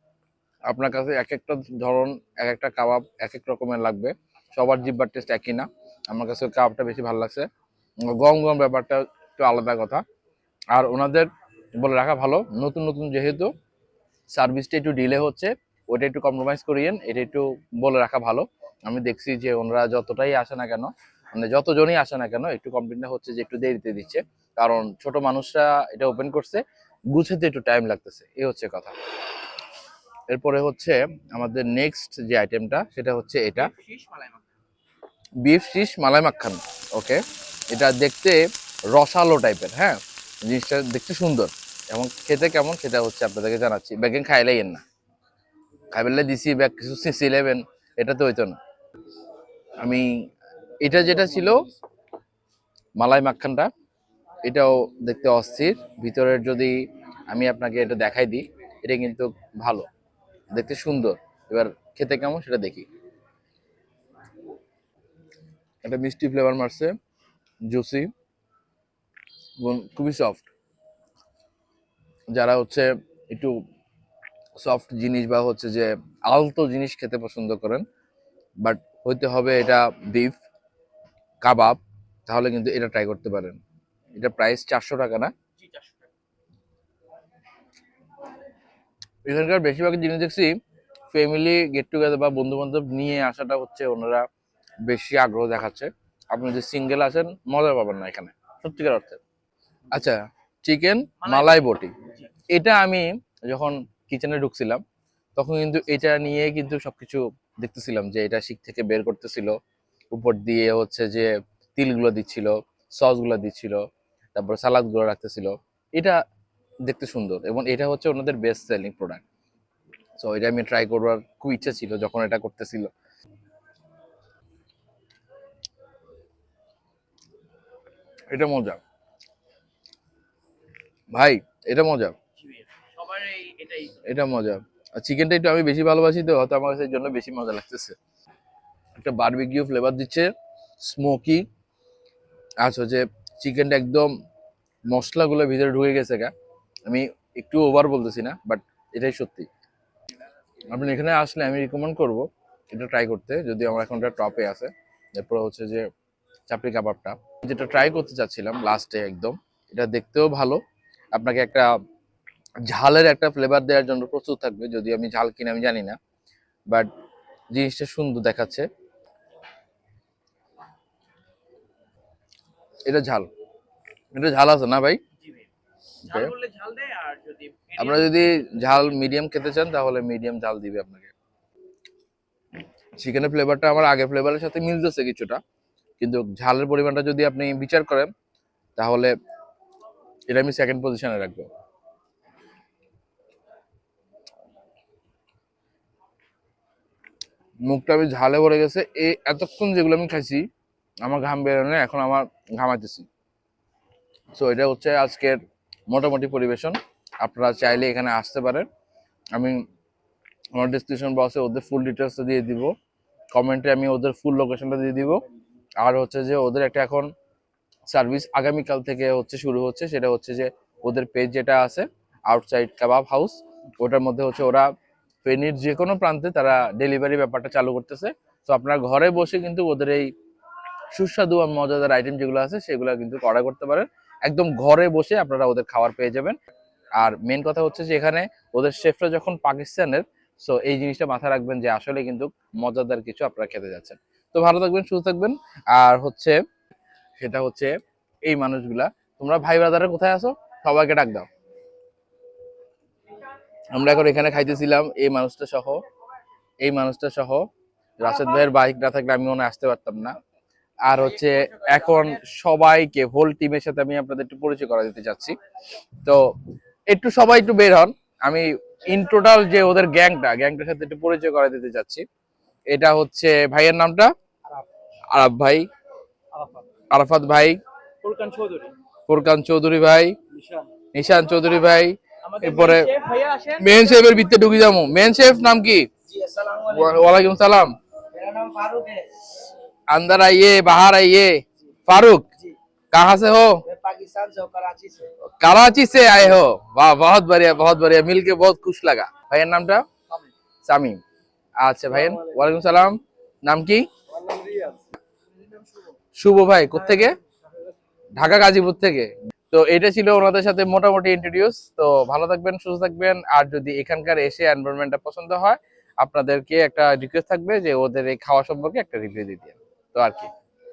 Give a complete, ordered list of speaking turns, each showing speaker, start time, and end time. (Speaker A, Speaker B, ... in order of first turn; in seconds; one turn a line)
Speaker A: 0.7-7.5
Speaker A: 8.1-10.0
Speaker A: 10.7-11.3
Speaker A: 11.8-13.5
Speaker A: 14.3-28.9
Speaker A: 30.3-33.7
Speaker B: 33.6-34.5
Speaker A: 35.4-38.4
Speaker A: 38.9-44.8
Speaker A: 45.9-48.6
Speaker A: 49.8-50.2
Speaker A: 50.8-51.7
Speaker A: 53.0-53.7
Speaker A: 54.4-59.9
Speaker A: 60.5-62.9
Speaker A: 65.8-66.9
Speaker A: 67.7-68.1
Speaker A: 69.6-70.5
Speaker A: 72.3-73.6
Speaker A: 74.6-77.8
Speaker A: 78.6-80.4
Speaker A: 81.4-83.6
Speaker A: 84.2-85.3
Speaker B: 85.5-86.1
Speaker A: 89.2-90.5
Speaker A: 91.1-94.2
Speaker A: 94.8-99.2
Speaker A: 99.9-101.9
Speaker B: 101.2-102.3
Speaker A: 102.5-104.8
Speaker A: 105.3-109.5
Speaker A: 110.1-113.8
Speaker A: 114.3-116.2
Speaker A: 116.8-119.2
Speaker A: 120.2-122.9
Speaker A: 128.3-128.8
Speaker A: 131.1-132.2
Speaker B: 132.4-134.0
Speaker A: 134.0-137.9
Speaker A: 139.0-141.4
Speaker A: 142.6-144.1
Speaker A: 144.9-146.3
Speaker A: 146.9-149.5
Speaker A: 150.7-155.8
Speaker A: 156.5-160.6
Speaker A: 161.1-161.7
Speaker A: 162.7-166.0
Speaker A: 167.5-168.6
Speaker A: 172.8-173.3
Speaker A: 174.1-175.0
Speaker B: 175.2-175.5
Speaker B: 176.0-178.2
Speaker A: 176.0-176.3
Speaker A: 177.8-181.1
Speaker A: 183.0-185.4
Speaker A: 186.0-188.1
Speaker A: 188.8-189.1
Speaker A: 190.3-191.5
Speaker A: 197.7-200.4
Speaker A: 201.0-203.1
Speaker A: 204.3-208.7
Speaker A: 210.5-212.7
Speaker A: 213.3-215.2
Speaker A: 215.8-217.1
Speaker A: 217.9-224.7
Speaker A: 225.2-230.1
Speaker A: 230.9-236.3
Speaker A: 237.0-246.4
Speaker A: 247.2-247.7
Speaker A: 248.3-251.3
Speaker A: 253.7-255.8
Speaker A: 256.6-257.4
Speaker A: 258.0-260.1
Speaker A: 260.9-265.4
Speaker B: 261.0-262.2
Speaker A: 266.9-272.0
Speaker A: 272.7-274.1
Speaker A: 275.1-275.6
Speaker B: 276.3-276.6
Speaker A: 276.9-277.6
Speaker B: 278.0-278.7
Speaker A: 279.1-280.1
Speaker B: 280.4-280.7
Speaker A: 280.9-282.9
Speaker B: 282.2-284.1
Speaker A: 283.6-285.9
Speaker C: 286.1-286.9
Speaker A: 286.6-287.7
Speaker C: 288.1-289.1
Speaker A: 289.9-292.3
Speaker A: 292.9-293.6
Speaker C: 293.7-295.1
Speaker A: 295.4-299.8
Speaker A: 300.6-301.0
Speaker A: 301.6-303.9
Speaker C: 304.1-304.8
Speaker A: 306.2-307.1
Speaker A: 308.2-320.3